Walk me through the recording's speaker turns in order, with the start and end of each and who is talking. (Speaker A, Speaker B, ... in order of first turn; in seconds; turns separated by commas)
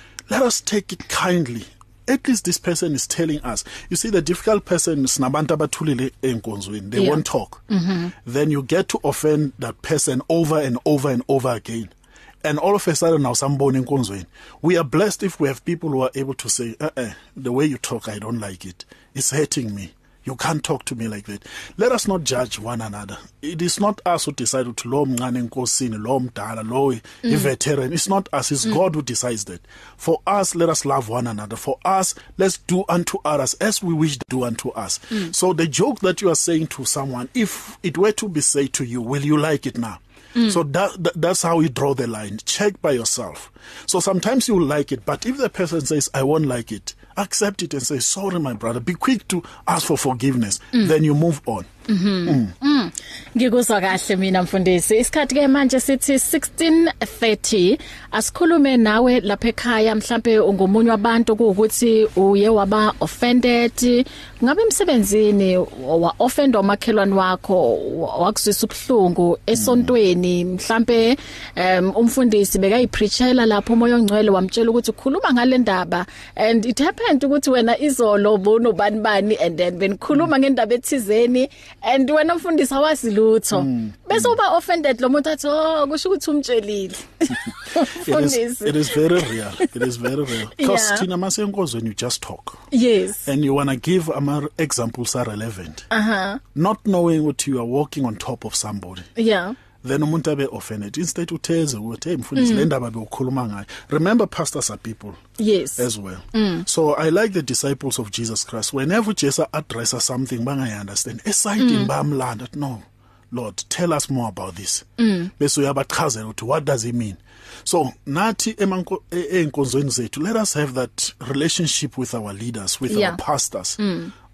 Speaker A: 0.3-7.6, Speaker B: 7.0-8.1, Speaker A: 8.2-51.7, Speaker B: 27.2-27.5, Speaker B: 51.9-89.7, Speaker A: 52.3-52.5, Speaker A: 69.6-69.9, Speaker A: 83.6-84.3, Speaker A: 87.8-92.6, Speaker B: 90.6-91.1, Speaker B: 92.7-93.3, Speaker A: 93.2-95.9, Speaker B: 95.9-96.4, Speaker A: 96.5-99.1, Speaker B: 99.2-99.6, Speaker A: 99.8-105.2, Speaker B: 102.4-102.7, Speaker B: 105.4-106.7, Speaker A: 105.8-123.8, Speaker B: 111.6-111.9, Speaker B: 115.0-115.3, Speaker B: 122.9-123.2, Speaker B: 123.8-124.1